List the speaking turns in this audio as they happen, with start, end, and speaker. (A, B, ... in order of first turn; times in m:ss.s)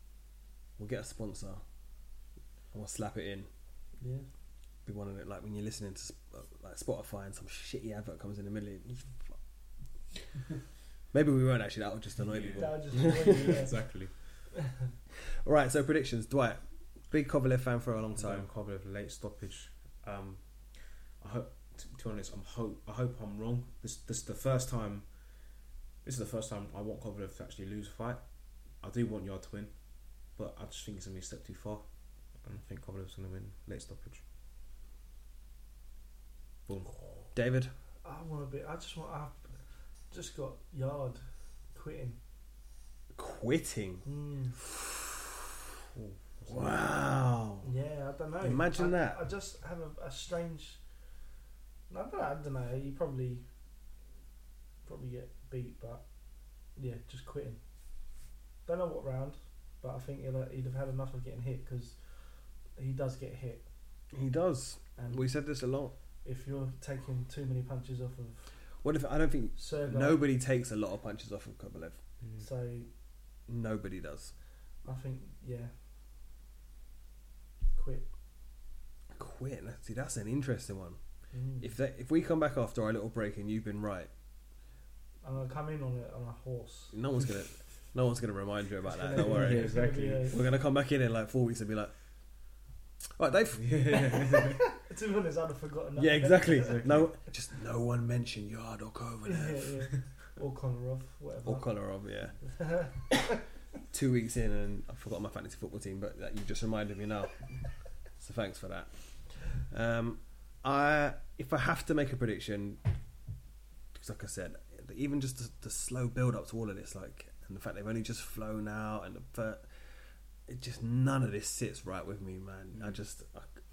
0:00.8-0:01.6 A
0:02.7-0:03.5 A
0:04.0-0:04.3 B
0:04.8-0:09.4 A
0:11.1-0:13.7 A
0:12.2-0:14.5 C
0:12.6-0:14.0 B
0:15.4-0:18.5 A
0:18.1-0:20.0 C
0:20.0-0:20.4 A
0:21.0-0:25.2 C
0:26.0-0:31.8 C
0:32.4-0:34.2 C
0:36.7-0:37.3 C
0:37.3-0:37.7 A
0:38.0-0:39.6 B
0:40.1-0:42.2 B
0:43.2-0:44.1 A
0:44.0-0:44.6 B
0:44.6-0:45.3 A
0:46.0-0:46.8 C
0:46.5-0:47.7 A
0:47.6-0:50.8 B
0:48.4-0:49.2 A
0:51.9-0:53.4 B
0:54.8-0:56.0 B
0:56.8-0:57.6 B
0:58.7-1:02.0 B
1:02.8-1:03.6 B
1:04.1-1:06.0 A
1:05.0-1:05.3 B
1:06.2-1:08.6 B
1:08.8-1:12.0 A
1:09.6-1:10.2 B
1:12.4-1:12.9 B
1:13.5-1:14.3 A
1:14.8-1:15.7 B
1:17.8-1:18.1 B
1:19.1-1:21.0 A
1:21.3-1:21.7 B
1:21.6-1:24.1 A
1:25.2-1:27.0 B
1:26.9-1:32.0 A
1:28.8-1:30.4 B
1:29.2-1:30.3 C
1:33.2-1:34.2 A
1:33.6-1:34.7 C
1:34.8-1:36.9 B
1:36.0-1:39.7 A
1:36.4-1:37.1 C
1:39.2-1:41.8 B
1:41.4-1:42.4 A
1:42.4-1:43.4 B
1:43.9-1:52.8 A
1:53.9-2:03.6 A
2:02.7-2:03.0 C